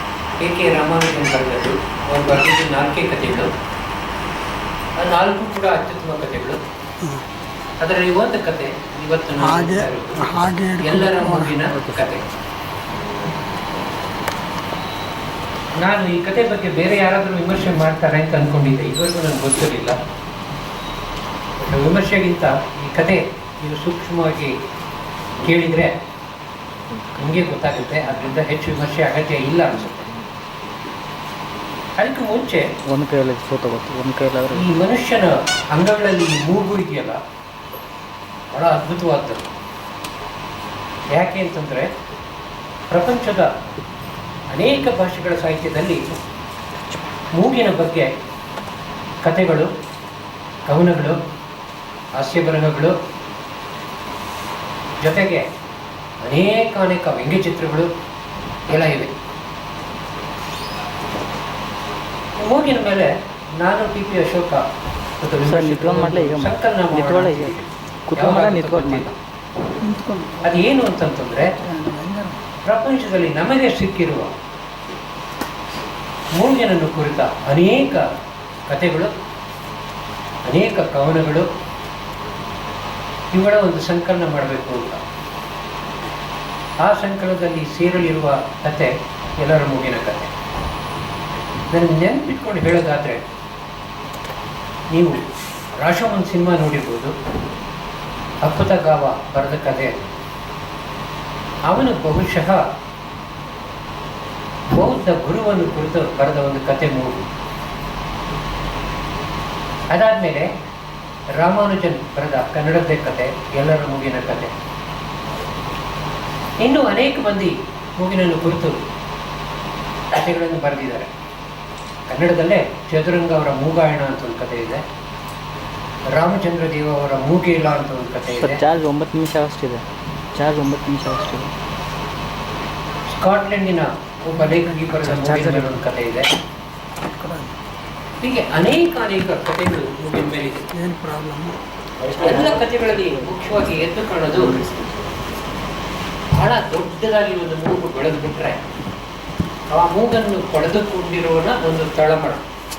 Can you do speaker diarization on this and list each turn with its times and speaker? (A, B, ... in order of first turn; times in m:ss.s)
0:00.4-0:03.5 A
0:05.0-0:06.6 A
0:07.8-0:12.2 A
0:09.4-0:11.7 B
0:15.8-0:20.0 A
0:21.6-0:24.5 A
0:25.4-0:26.0 A
0:27.2-0:30.1 A
0:32.0-0:32.7 A
0:32.8-0:34.7 C
0:34.5-0:37.2 A
0:38.5-0:39.5 A
0:41.1-0:41.9 A
0:42.9-0:43.5 A
0:44.5-0:46.0 A
0:47.4-0:48.1 A
0:49.2-0:49.7 A
0:50.7-0:51.2 A
0:52.2-0:52.9 A
0:55.0-0:55.4 A
0:56.2-0:57.9 A
0:58.7-0:59.1 A
1:02.4-1:04.6 A
1:05.2-1:09.2 A
1:05.5-1:07.6 C
1:08.1-1:09.0 C
1:09.8-1:10.5 B
1:10.4-1:11.6 A
1:11.6-1:12.4 B
1:12.6-1:14.4 A
1:16.4-1:18.1 A
1:18.7-1:19.1 A
1:20.5-1:21.5 A
1:23.3-1:25.0 A
1:26.8-1:30.3 A
1:31.7-1:33.2 A
1:34.9-1:35.2 A
1:35.8-1:37.1 A
1:38.4-1:40.1 A
1:41.7-1:42.6 A
1:44.7-1:47.3 A
1:49.9-1:50.5 A
1:51.4-1:54.5 A
1:56.6-1:58.8 A
2:00.1-2:01.1 A
2:02.1-2:04.8 A
2:06.1-2:08.6 A
2:08.4-2:11.5 C
2:13.2-2:16.3 A
2:14.8-2:15.7 B
2:17.1-2:17.5 B
2:18.2-2:20.7 A
2:20.7-2:21.6 B
2:22.0-2:23.4 C
2:22.2-2:24.6 A
2:24.3-2:24.9 C
2:26.3-2:28.6 A
2:29.7-2:32.4 A